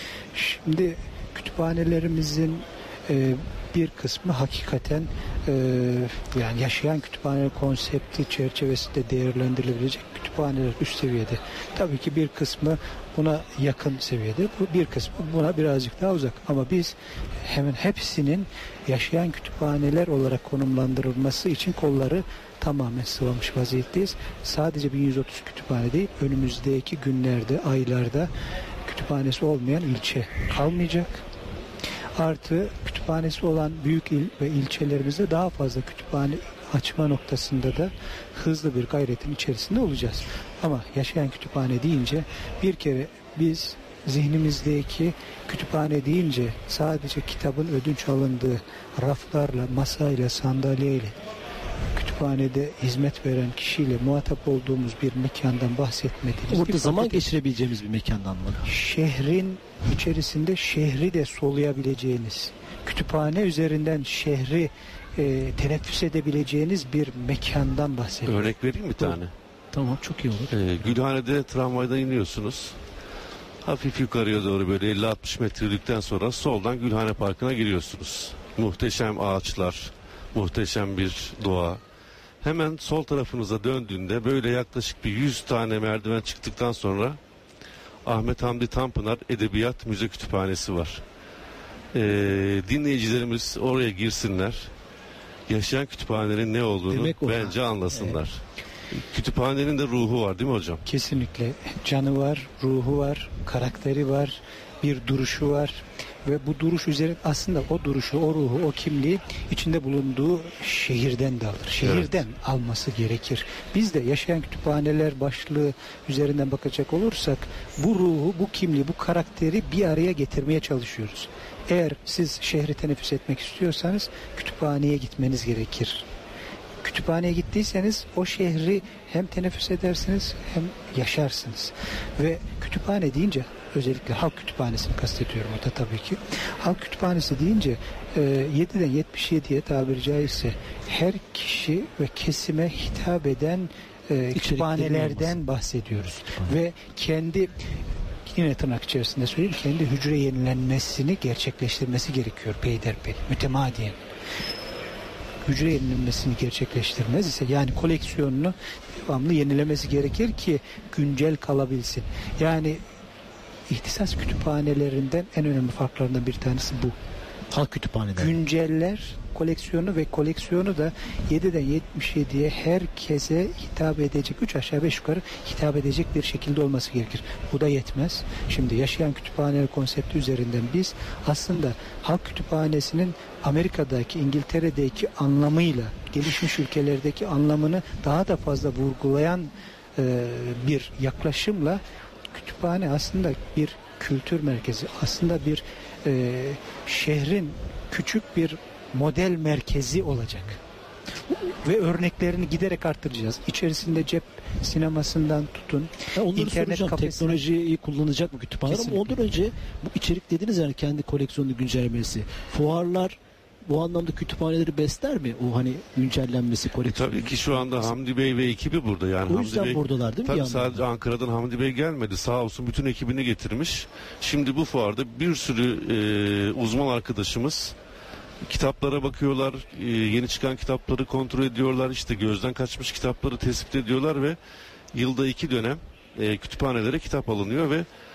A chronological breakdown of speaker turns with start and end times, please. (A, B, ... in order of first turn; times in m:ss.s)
0:00.3-0:28.3 A
0:28.8-0:31.2 A
0:32.2-0:51.2 A
0:51.9-0:57.3 A
0:56.5-0:58.7 B
0:58.6-1:08.5 A
1:08.2-1:09.3 C
1:09.7-1:11.0 B
1:10.5-1:12.8 C
1:13.6-1:21.8 C
1:22.4-1:27.2 C
1:28.0-1:31.0 C
1:31.9-1:34.7 C
1:35.5-1:38.4 C
1:36.9-1:38.2 B
1:38.9-1:40.8 C
1:40.8-2:06.0 A
1:51.8-1:52.1 C
2:06.8-2:27.6 A
2:24.3-2:25.4 B
2:26.2-2:26.6 B
2:28.3-2:34.0 A
2:35.4-2:42.8 A
2:43.7-2:47.0 A
2:47.5-2:48.4 B
2:48.2-3:20.6 A
3:21.3-3:27.4 A
3:26.2-3:37.8 B
3:28.7-3:29.2 A
3:36.9-3:47.8 C
3:39.3-3:40.8 B
3:48.4-3:54.4 C
3:54.9-3:57.8 C